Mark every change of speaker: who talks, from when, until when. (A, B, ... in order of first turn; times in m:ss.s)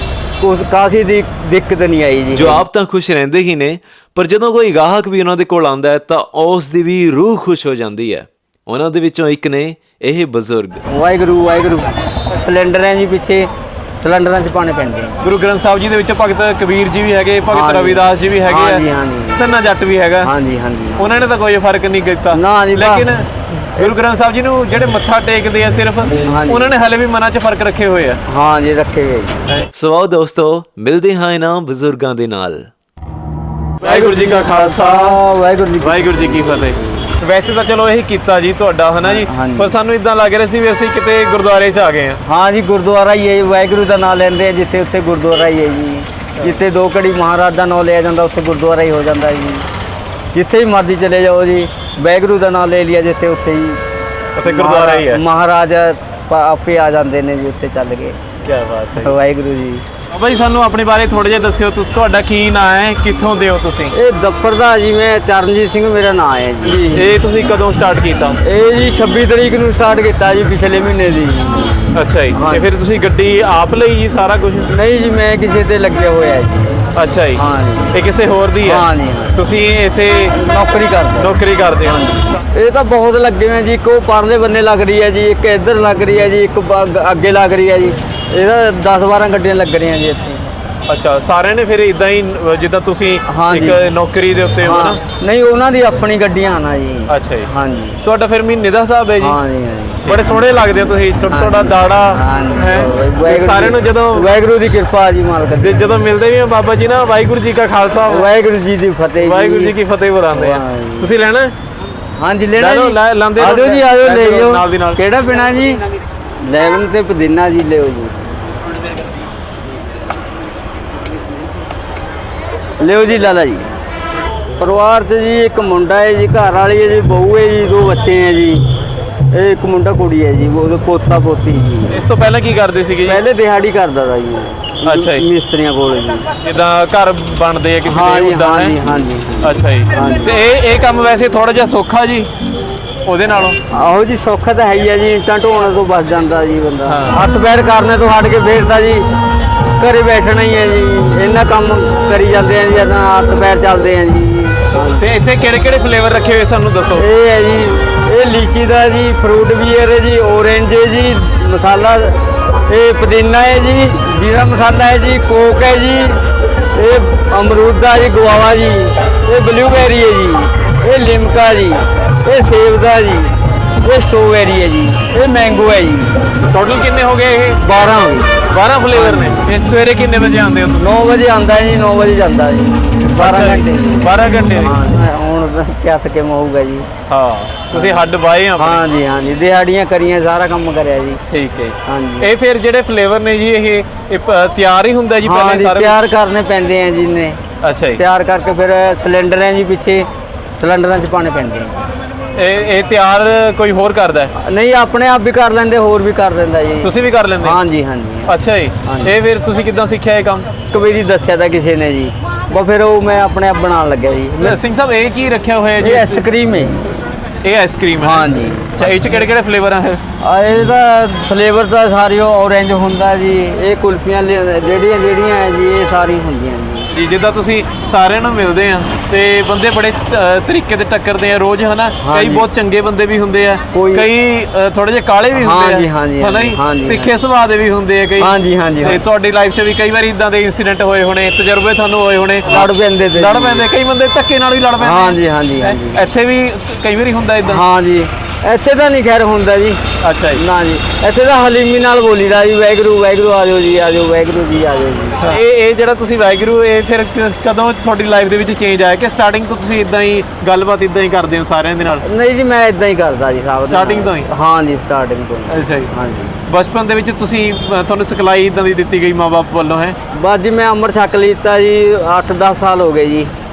0:00.4-0:02.6 A
0:02.4-0:10.8 B
0:10.9-0:13.5 A
0:14.0-0:15.2 A
0:15.2-0:18.8 C
0:17.5-0:19.4 A
0:19.4-0:20.3 C
0:20.2-0:21.2 A
0:21.0-0:28.2 C
0:22.3-0:23.1 A
0:26.2-0:26.7 A
0:28.3-0:29.4 A
0:29.7-0:32.7 B
0:33.8-0:35.2 C
0:33.8-0:37.0 A
0:35.8-0:42.2 C
0:39.0-0:39.7 A
0:42.2-0:49.6 A
0:50.3-0:53.8 A
0:54.4-0:55.2 C
0:54.4-0:58.2 A
0:58.4-0:59.2 C
0:59.0-0:59.8 A
1:00.1-1:03.9 C
1:03.9-1:07.2 A
1:06.6-1:08.4 C
1:08.4-1:12.6 A
1:11.9-1:14.7 C
1:14.7-1:16.8 A
1:16.9-1:17.4 C
1:17.4-1:18.0 A
1:17.9-1:20.4 C
1:18.6-1:19.4 A
1:20.3-1:30.5 A
1:21.2-1:22.4 C
1:30.9-1:35.0 C
1:33.2-1:33.9 A
1:34.6-1:38.0 A
1:37.1-1:37.5 C
1:38.0-1:39.4 C
1:39.2-1:40.4 A
1:40.0-1:44.3 C
1:41.3-1:46.0 A
1:45.6-1:48.3 C
1:48.0-1:49.8 A
1:49.2-1:51.5 C
1:50.3-1:51.1 A
1:52.2-1:55.8 A
1:52.6-1:55.0 C
1:56.4-1:58.1 A
2:02.8-2:03.7 A
2:04.6-2:08.6 A
2:09.3-2:12.0 A
2:11.9-2:13.2 C
2:13.0-2:16.3 A
2:14.8-2:15.2 C
2:16.4-2:18.9 C
2:17.8-2:20.3 A
2:19.4-2:22.3 C
2:23.0-2:23.6 C
2:23.7-2:29.0 A
2:26.8-2:27.2 C
2:29.8-2:35.0 A
2:35.0-2:37.0 C
2:37.0-2:56.2 A
2:56.5-2:57.6 C
2:57.6-2:59.5 A
2:58.5-3:00.9 C
3:00.8-3:06.9 A
3:03.0-3:04.8 C
3:07.1-3:08.8 C
3:07.7-3:11.2 A
3:11.3-3:16.0 C
3:11.8-3:12.3 A
3:15.2-3:17.4 A
3:17.6-3:18.0 C
3:18.0-3:20.0 A
3:20.6-3:21.8 A
3:22.3-3:24.3 C
3:24.4-3:29.1 A
3:26.8-3:27.6 C
3:28.3-3:30.5 C
3:30.7-3:34.6 A
3:34.4-3:36.2 C
3:35.8-3:36.8 A
3:37.4-3:40.0 C
3:38.0-3:39.1 A
3:40.2-3:46.9 A
3:46.9-4:07.6 C
3:52.0-3:52.5 A
3:53.7-3:54.1 A
3:55.4-3:57.1 A
3:58.2-3:59.0 A
4:02.4-4:03.6 A
4:04.8-4:06.1 A
4:07.4-4:09.8 A
4:10.0-4:10.4 C
4:10.3-4:15.4 A
4:15.2-4:22.0 C
4:22.0-4:26.4 A
4:23.6-4:24.3 C
4:25.5-4:25.9 C
4:26.5-4:30.0 C
4:30.1-4:33.3 A